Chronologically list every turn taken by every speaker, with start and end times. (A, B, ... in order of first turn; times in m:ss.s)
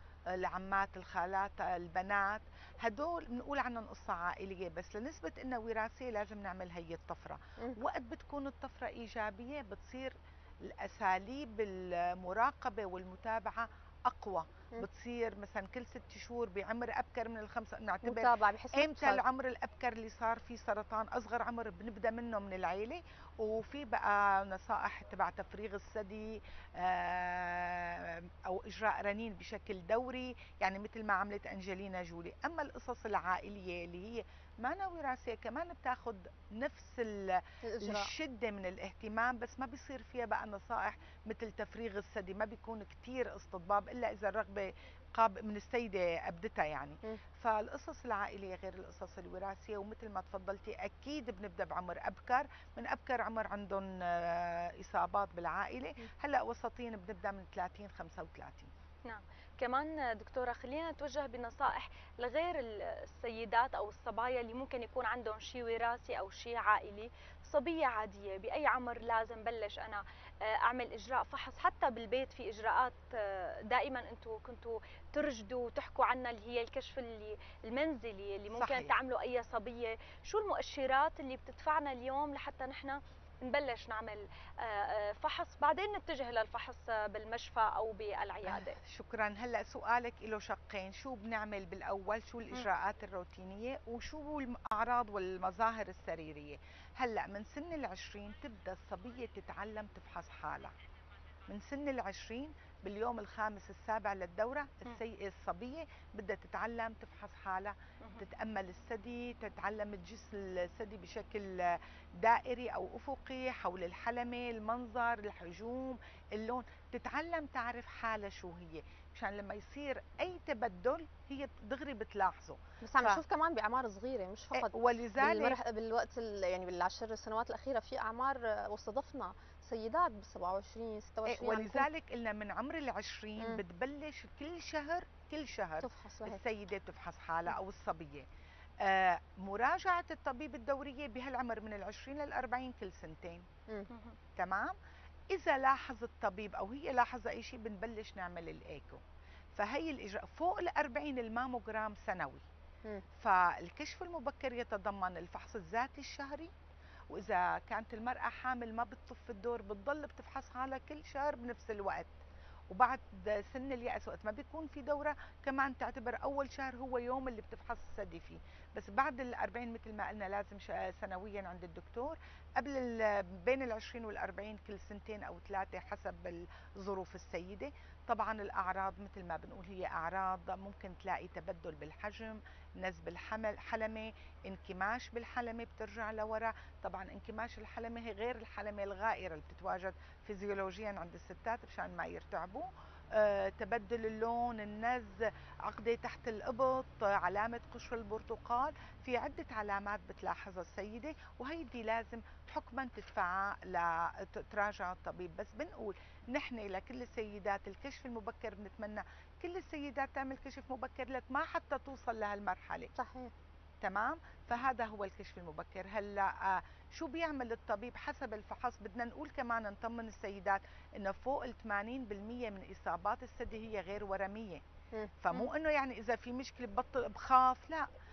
0:00.3-0:58.7 A
0:18.0-0:19.2 B
0:37.6-0:38.1 B
0:59.0-1:28.8 C
1:18.5-1:18.9 A
1:28.4-1:40.7 A
1:41.5-2:03.2 A
2:02.8-2:11.9 B
2:04.5-2:05.6 A
2:11.2-2:18.3 A
2:15.8-2:16.4 B
2:18.8-2:23.4 A
2:23.9-2:24.2 C
2:24.4-2:24.7 A
2:25.3-2:29.0 A
2:29.5-2:32.4 A
2:33.2-2:36.5 A
2:37.1-2:42.1 A
2:42.7-3:32.9 A
3:33.0-3:33.3 B
3:33.8-3:44.6 A
3:45.2-3:47.8 A